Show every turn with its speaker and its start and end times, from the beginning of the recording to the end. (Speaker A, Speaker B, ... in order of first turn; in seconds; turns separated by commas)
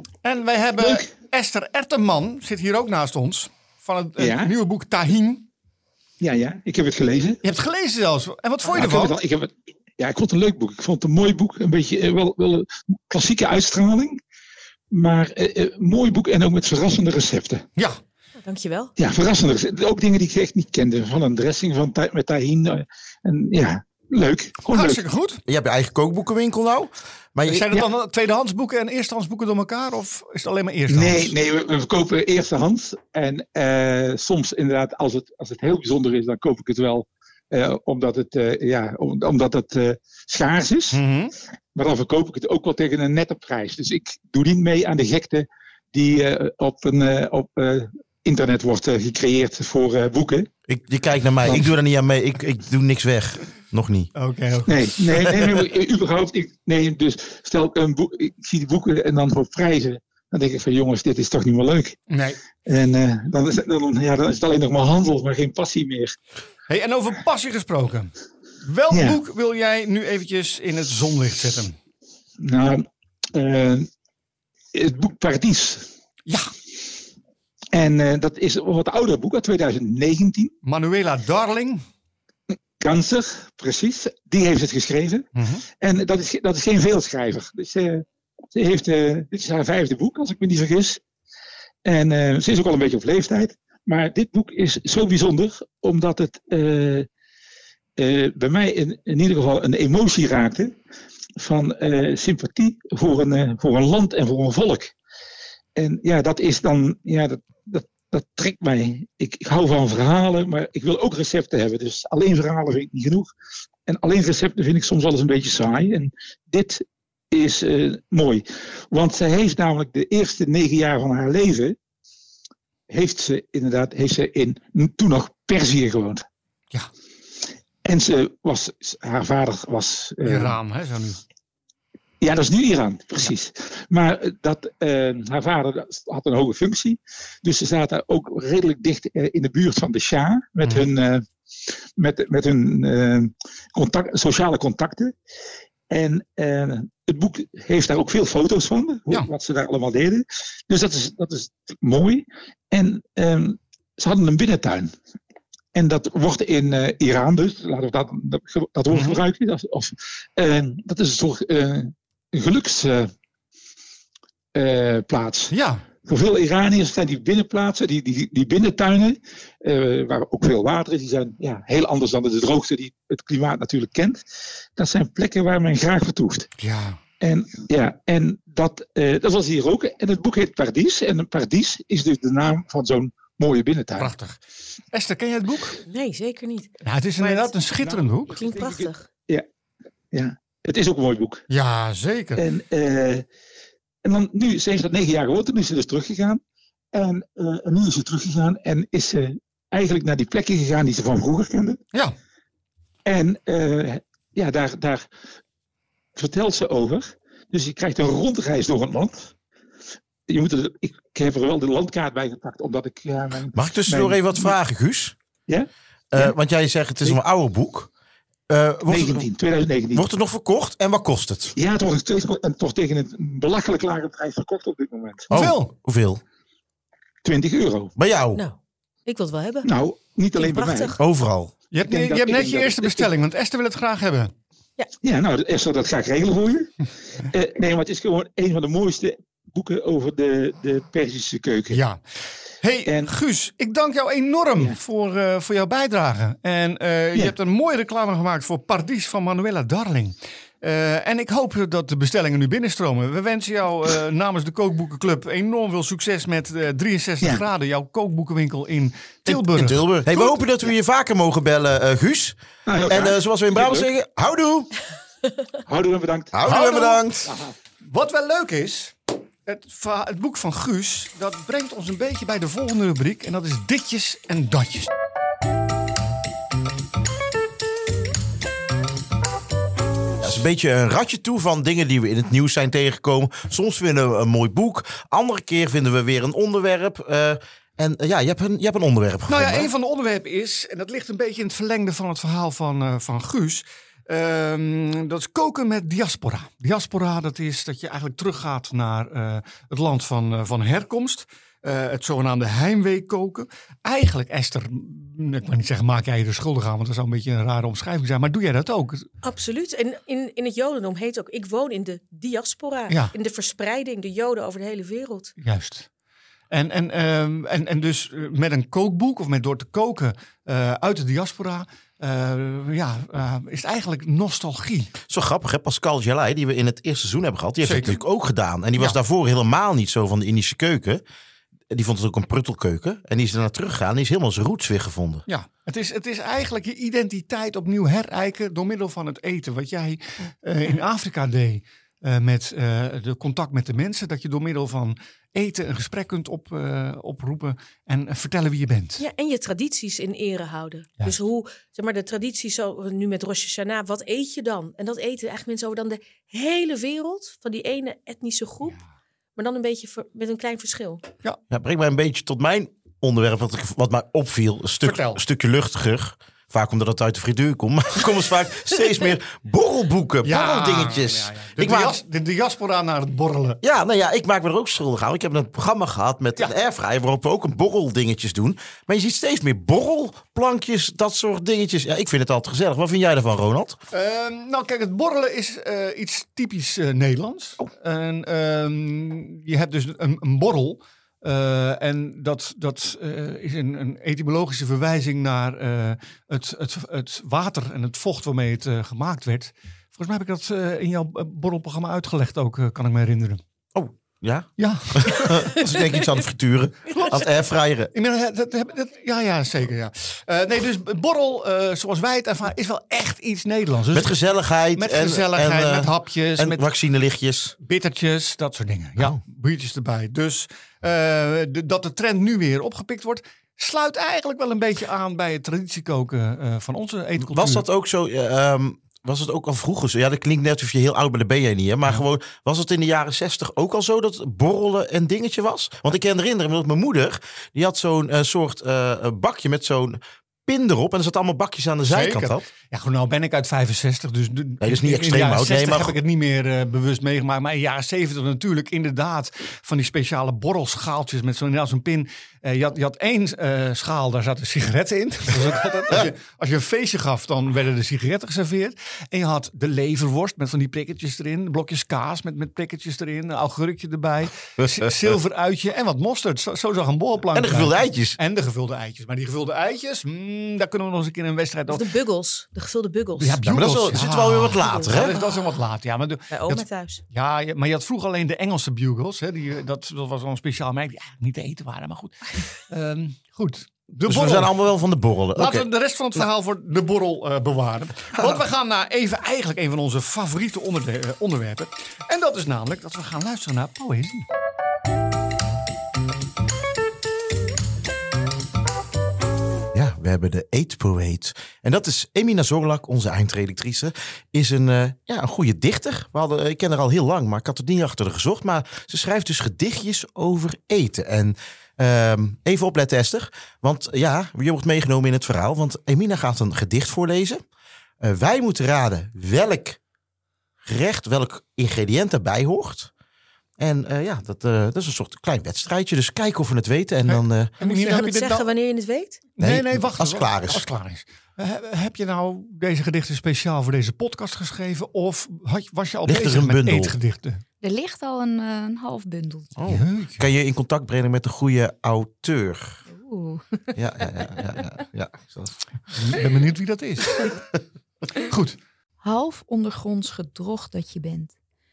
Speaker A: 0.2-5.5, Speaker B: 4.2-4.5, Speaker B: 6.2-7.4, Speaker A: 7.4-9.2, Speaker B: 8.7-14.2, Speaker B: 14.9-17.6, Speaker A: 17.8-18.0, Speaker C: 18.4-18.9, Speaker B: 19.0-25.0, Speaker A: 24.7-25.4, Speaker D: 25.5-27.8, Speaker A: 27.5-31.3, Speaker B: 30.9-41.0, Speaker A: 40.9-41.3, Speaker B: 41.7-50.5, Speaker D: 50.7-54.1, Speaker A: 54.1-55.3, Speaker B: 54.7-62.0, Speaker A: 62.1-62.4, Speaker B: 62.7-66.2, Speaker A: 66.7-71.8, Speaker B: 68.9-69.2, Speaker B: 72.4-73.9, Speaker B: 74.7-75.9, Speaker A: 76.3-76.5, Speaker B: 77.7-80.5, Speaker A: 80.6-81.8, Speaker B: 82.8-91.0, Speaker A: 85.3-85.7, Speaker B: 91.8-97.1, Speaker B: 98.0-100.8, Speaker B: 101.4-104.9, Speaker B: 105.8-113.3, Speaker B: 113.9-121.8, Speaker B: 122.9-126.2, Speaker B: 127.8-130.6, Speaker A: 130.2-131.2, Speaker B: 132.2-141.3, Speaker A: 140.6-140.9, Speaker B: 142.0-145.1, Speaker B: 145.9-154.9, Speaker B: 155.7-163.1, Speaker A: 158.9-159.2, Speaker B: 164.6-165.5, Speaker A: 165.5-165.8, Speaker B: 166.0-174.2, Speaker B: 174.8-176.5, Speaker A: 176.6-177.0, Speaker B: 177.2-184.1, Speaker A: 184.0-185.8, Speaker C: 185.9-187.5, Speaker A: 186.8-188.4, Speaker B: 187.8-189.5, Speaker C: 188.3-189.1, Speaker B: 190.1-191.4, Speaker A: 191.5-192.4, Speaker B: 192.4-193.2, Speaker B: 194.0-196.4, Speaker B: 196.9-201.8, Speaker B: 203.1-205.1, Speaker B: 206.2-209.3, Speaker B: 210.3-214.5, Speaker D: 213.5-215.2, Speaker B: 215.5-216.3, Speaker D: 216.1-217.9, Speaker D: 218.5-219.3, Speaker B: 218.9-220.1, Speaker D: 219.9-221.6, Speaker B: 221.6-225.3, Speaker D: 225.3-226.2, Speaker A: 225.3-225.7, Speaker B: 227.2-227.9, Speaker D: 228.0-228.4, Speaker C: 228.4-229.7, Speaker B: 229.6-231.0, Speaker C: 230.4-231.0, Speaker D: 231.0-231.5, Speaker A: 231.7-234.3, Speaker B: 231.8-233.1, Speaker B: 235.0-241.8, Speaker A: 241.7-242.0, Speaker A: 242.6-260.3, Speaker B: 242.9-243.1, Speaker D: 259.3-264.7, Speaker B: 262.7-263.9, Speaker B: 265.6-266.6, Speaker D: 266.3-267.4, Speaker A: 266.4-267.1, Speaker B: 267.3-267.6, Speaker A: 267.8-274.9, Speaker D: 280.2-289.7, Speaker A: 289.3-309.1, Speaker C: 309.2-315.3, Speaker A: 312.9-313.1, Speaker A: 315.4-315.9, Speaker A: 316.5-324.9, Speaker D: 325.1-331.0, Speaker A: 327.6-328.0, Speaker D: 331.7-335.2, Speaker A: 335.3-349.0, Speaker C: 349.0-358.8, Speaker C: 359.4-361.0, Speaker D: 361.5-372.0, Speaker A: 364.8-365.2, Speaker A: 370.2-373.6, Speaker D: 373.6-383.8, Speaker A: 383.9-403.4, Speaker D: 403.7-407.9, Speaker A: 404.6-405.6, Speaker A: 407.9-414.1, Speaker D: 413.9-417.6, Speaker A: 414.8-416.6, Speaker A: 417.6-427.6, Speaker D: 427.2-442.5, Speaker A: 441.9-471.9, Speaker D: 444.6-446.0, Speaker D: 467.3-468.2, Speaker C: 471.7-473.4, Speaker A: 473.2-484.5, Speaker D: 473.4-475.2, Speaker C: 474.6-475.4, Speaker C: 476.3-477.0, Speaker D: 484.1-485.7, Speaker A: 485.4-494.3, Speaker D: 488.1-488.4, Speaker D: 499.7-517.4, Speaker D: 518.0-519.8, Speaker D: 520.6-522.9, Speaker D: 523.6-527.5, Speaker A: 527.0-528.5, Speaker C: 527.6-529.2, Speaker A: 529.4-537.4, Speaker D: 529.4-530.6, Speaker D: 536.1-537.0, Speaker E: 537.6-539.6, Speaker D: 539.6-542.8, Speaker A: 539.7-540.3, Speaker E: 542.9-543.7, Speaker D: 543.8-545.6, Speaker A: 545.9-547.3, Speaker A: 548.2-548.6, Speaker E: 549.0-551.3